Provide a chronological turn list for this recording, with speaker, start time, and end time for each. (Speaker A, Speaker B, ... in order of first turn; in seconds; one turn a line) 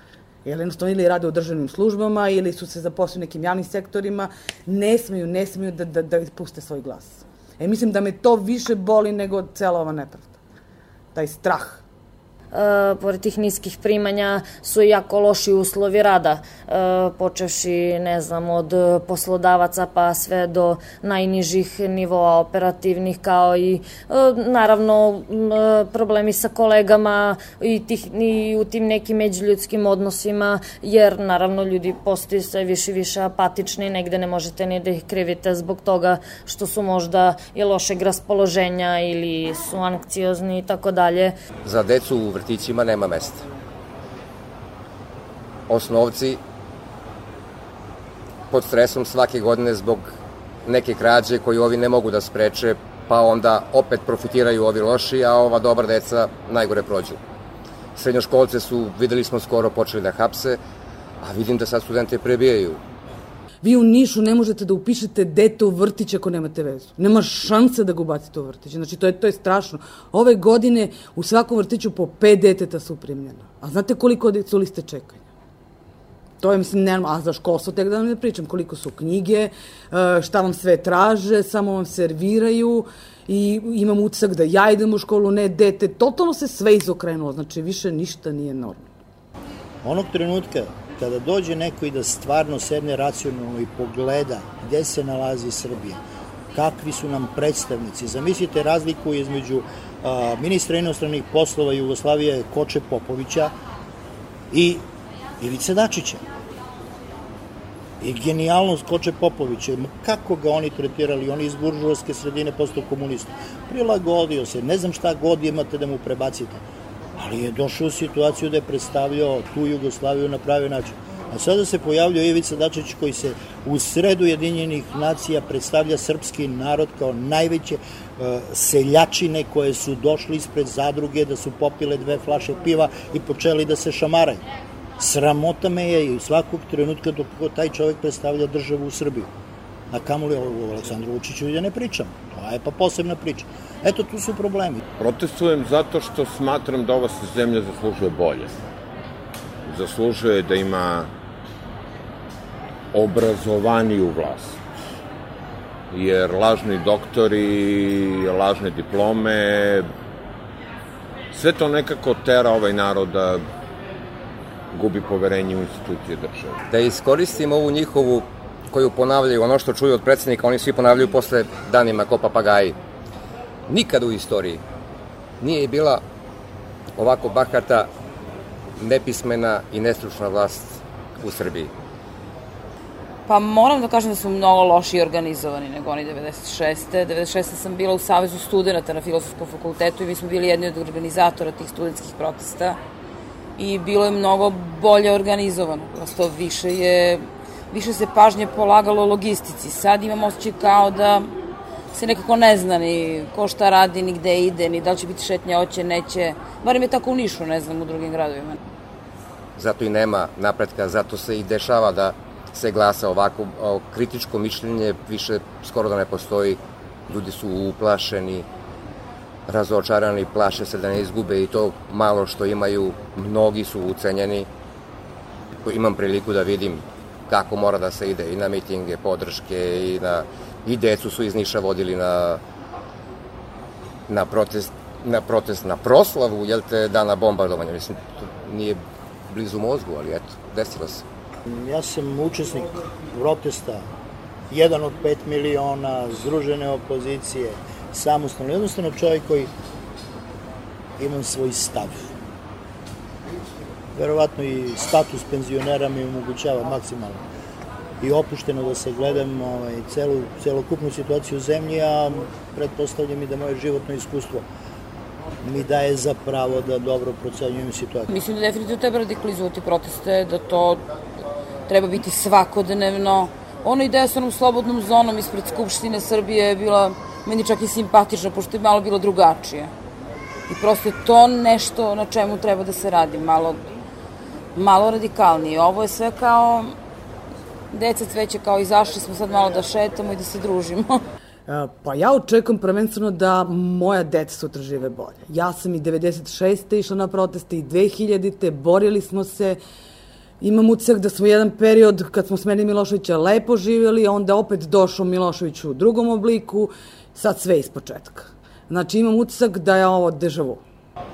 Speaker A: 0.5-10.4
Speaker A: 11.1-11.8
Speaker B: 12.5-41.4
Speaker C: 41.6-43.5
Speaker C: 45.7-46.4
Speaker C: 48.5-50.1
Speaker C: 50.7-57.2
Speaker C: 58.0-60.6
Speaker C: 61.2-62.8
Speaker A: 63.6-75.2
Speaker A: 76.4-88.9
Speaker D: 89.8-96.0
Speaker D: 96.5-103.5
Speaker D: 104.5-104.8
Speaker D: 105.4-106.2
Speaker D: 108.0-116.6
Speaker D: 117.2-134.4
Speaker D: 135.0-139.3
Speaker D: 139.9-144.8
Speaker E: 145.0-148.5
Speaker E: 149.7-151.1
Speaker E: 152.9-154.6
Speaker E: 155.9-159.9
Speaker E: 161.3-163.4
Speaker E: 164.7-166.6
Speaker C: 166.7-172.8
Speaker C: 173.7-174.6
Speaker C: 175.4-176.0
Speaker C: 177.0-177.9
Speaker C: 178.8-181.7
Speaker F: 183.3-192.8
Speaker F: 193.6-201.3
Speaker F: 201.9-208.6
Speaker C: 209.6-218.5
Speaker C: 219.5-224.5
Speaker C: 225.6-232.4
Speaker C: 234.1-241.0
Speaker D: 241.5-243.8
Speaker D: 244.5-249.5
Speaker D: 251.0-252.1
Speaker D: 253.9-257.2
Speaker D: 258.0-264.4
Speaker D: 265.4-268.1
Speaker F: 268.1-270.8
Speaker F: 271.7-279.7
Speaker F: 280.5-283.6
Speaker F: 284.6-286.8
Speaker F: 287.7-291.0
Speaker A: 291.5-299.6
Speaker A: 300.4-310.6